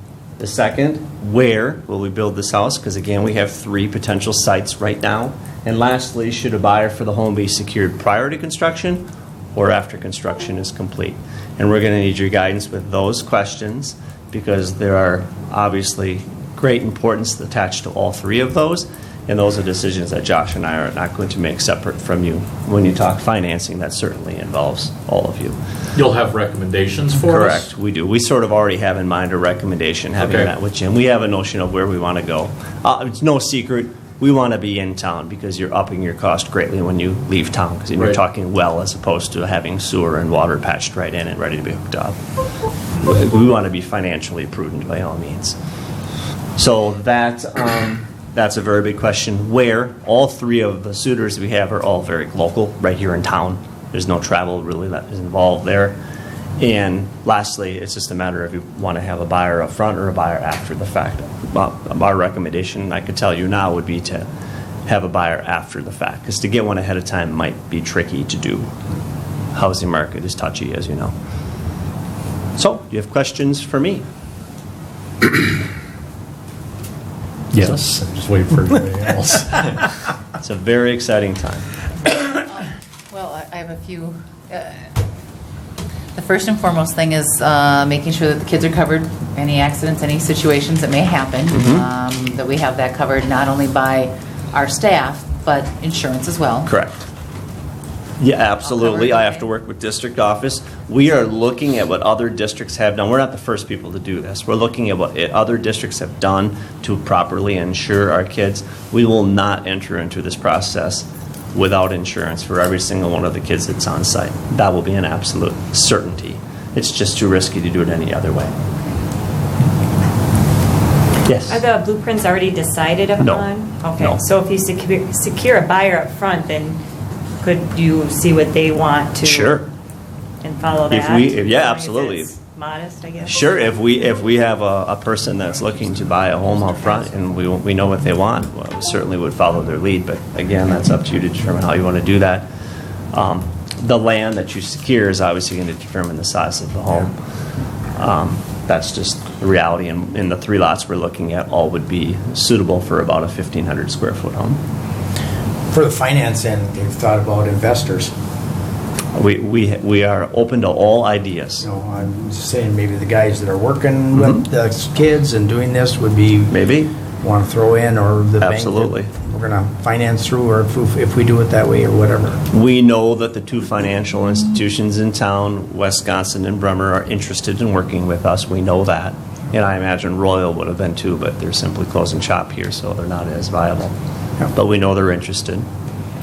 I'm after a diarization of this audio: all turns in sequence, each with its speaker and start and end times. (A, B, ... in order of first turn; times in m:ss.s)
0:00.4-0:09.0 A
0:09.6-0:25.6 A
0:26.0-0:27.7 B
0:27.2-0:42.2 A
0:30.2-0:30.5 B
0:43.0-0:45.6 A
0:46.6-0:56.0 A
0:56.6-1:04.3 A
1:04.9-1:08.7 A
1:09.5-1:11.1 A
1:12.6-1:14.0 A
1:17.5-1:19.8 B
1:20.4-1:21.7 A
1:22.3-1:24.9 C
1:26.2-1:36.7 C
1:31.5-1:31.9 A
1:36.7-1:37.1 A
1:38.2-1:58.5 A
1:38.6-1:39.5 C
2:01.2-2:01.6 A
2:01.5-2:06.8 D
2:03.2-2:04.2 A
2:07.4-2:09.6 D
2:09.2-2:09.7 A
2:10.4-2:13.6 D
2:10.9-2:12.3 A
2:13.2-2:22.5 A
2:23.1-2:27.1 A
2:28.0-2:34.6 A
2:35.7-2:38.1 E
2:39.2-2:41.6 A
2:41.6-2:46.5 E
2:46.5-2:46.9 A
2:47.2-2:52.4 E
2:48.4-2:49.1 A
2:52.5-3:04.0 A
3:04.5-3:05.7 A